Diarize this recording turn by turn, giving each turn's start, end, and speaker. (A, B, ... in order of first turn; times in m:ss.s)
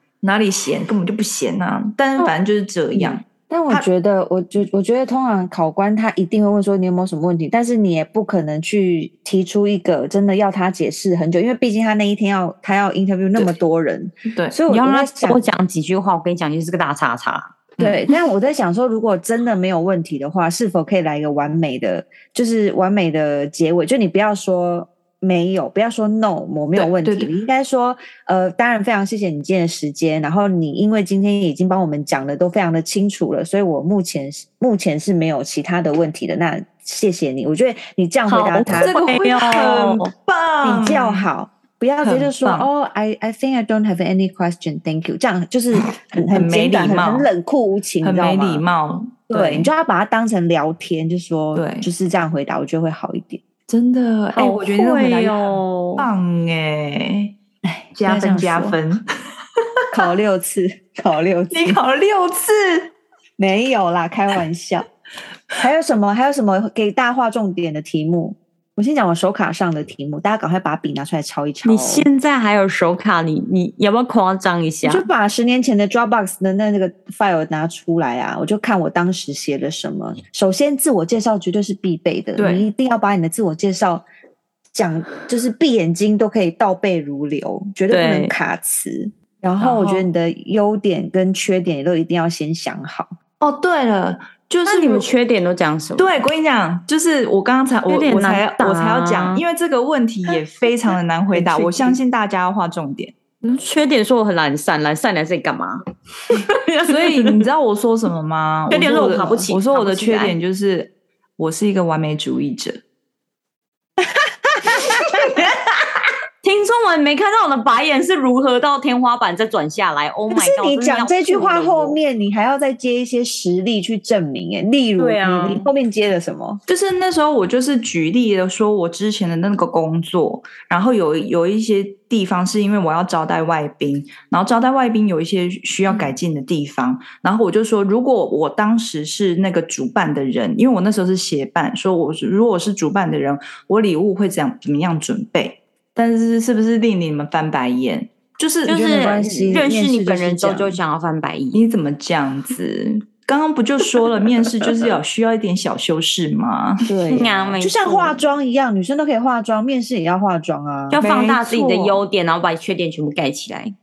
0:00.2-0:03.9 A
0:02.9-0:15.4 B
0:14.3-0:14.6 A
0:14.7-0:17.5 C
0:17.8-0:39.0 B
0:26.8-0:27.3 A
0:38.3-0:40.1 C
0:38.7-0:41.3 A
0:40.6-0:48.6 B
0:42.0-0:42.7 A
0:46.3-0:47.3 A
0:48.0-0:49.7 A
0:49.3-0:53.4 B
0:51.6-0:51.9 A
0:53.7-0:57.3 A
0:54.3-0:56.1 C
0:57.6-0:58.8 B
0:58.0-0:59.0 A
0:59.9-1:01.8 B
1:01.5-1:02.9 A
1:03.4-1:04.9 B
1:05.6-1:12.1 B
1:11.6-1:15.1 C
1:14.8-1:24.0 B
1:22.4-1:22.7 A
1:24.8-1:33.2 B
1:27.9-1:28.4 C
1:29.6-1:30.1 A
1:33.4-1:35.1 A
1:34.7-1:36.2 C
1:36.0-1:43.1 A
1:37.9-1:39.4 C
1:41.3-1:42.0 B
1:43.4-1:47.4 C
1:46.9-1:52.8 A
1:48.7-1:50.4 C
1:49.0-1:49.5 B
1:54.1-1:55.3 B
1:56.4-2:02.0 C
2:00.3-2:06.6 B
2:05.0-2:05.7 C
2:06.7-2:28.8 A
2:28.7-2:30.8 B
2:28.7-2:31.6 C
2:31.5-2:36.9 A
2:36.8-2:41.0 B
2:37.1-2:38.2 C
2:40.9-2:43.7 C
2:40.9-2:42.0 A